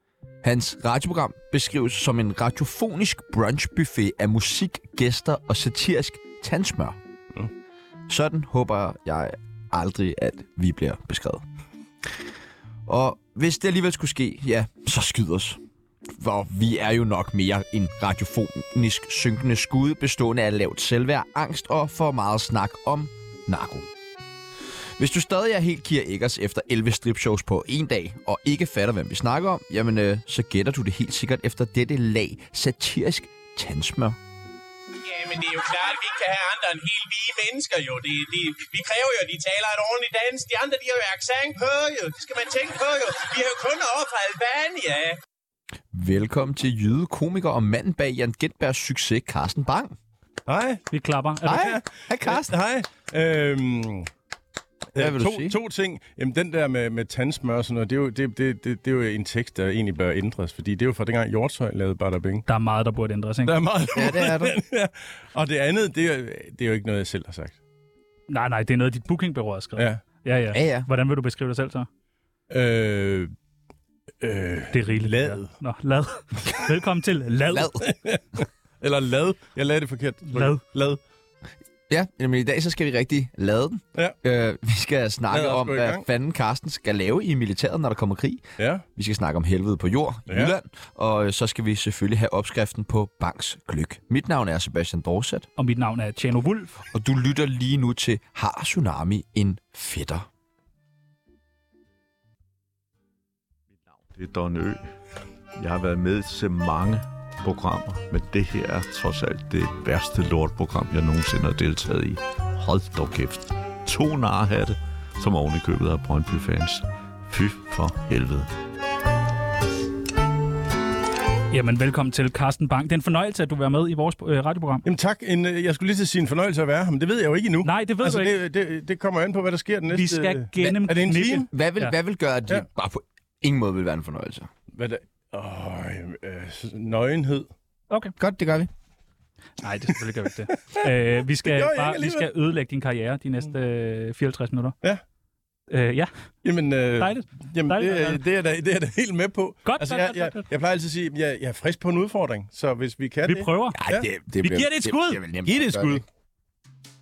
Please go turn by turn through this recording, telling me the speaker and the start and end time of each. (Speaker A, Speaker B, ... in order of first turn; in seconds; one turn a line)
Speaker A: 0.4-7.0
Speaker A: 8.1-11.4
Speaker A: 12.9-15.6
Speaker A: 16.1-23.9
Speaker A: 25.0-34.2
Speaker B: 35.0-45.2
Speaker A: 45.9-50.0
Speaker C: 50.5-50.9
Speaker D: 50.9-51.7
Speaker A: 51.5-52.5
Speaker C: 51.5-54.1
Speaker C: 54.9-62.5
Speaker A: 55.0-55.6
Speaker D: 62.5-63.6
Speaker C: 63.5-67.6
Speaker A: 64.0-64.6
Speaker D: 68.3-71.9
Speaker A: 70.5-70.9
Speaker C: 72.5-73.3
Speaker C: 74.2-75.5
Speaker D: 74.7-77.8
Speaker A: 77.5-77.8
Speaker C: 77.8-81.0
Speaker D: 80.3-80.6
Speaker A: 81.9-88.4
Speaker C: 85.3-86.0
Speaker C: 88.6-88.8
Speaker A: 89.0-95.5
Speaker C: 90.3-90.5
Speaker D: 95.6-96.8
Speaker A: 96.9-100.3
Speaker E: 104.1-104.8
Speaker E: 105.6-118.5
Speaker D: 121.5-124.8
Speaker C: 124.8-131.5
Speaker D: 127.6-128.3
Speaker D: 129.9-131.9
Speaker A: 131.5-134.5
Speaker C: 134.8-137.5
Speaker A: 138.2-138.7
Speaker D: 139.6-144.8
Speaker C: 141.4-142.3
Speaker D: 145.7-146.1
Speaker C: 146.4-154.1
Speaker D: 147.0-148.2
Speaker D: 149.7-150.4
Speaker D: 153.3-153.8
Speaker A: 153.7-156.0
Speaker D: 154.4-155.2
Speaker C: 155.5-156.0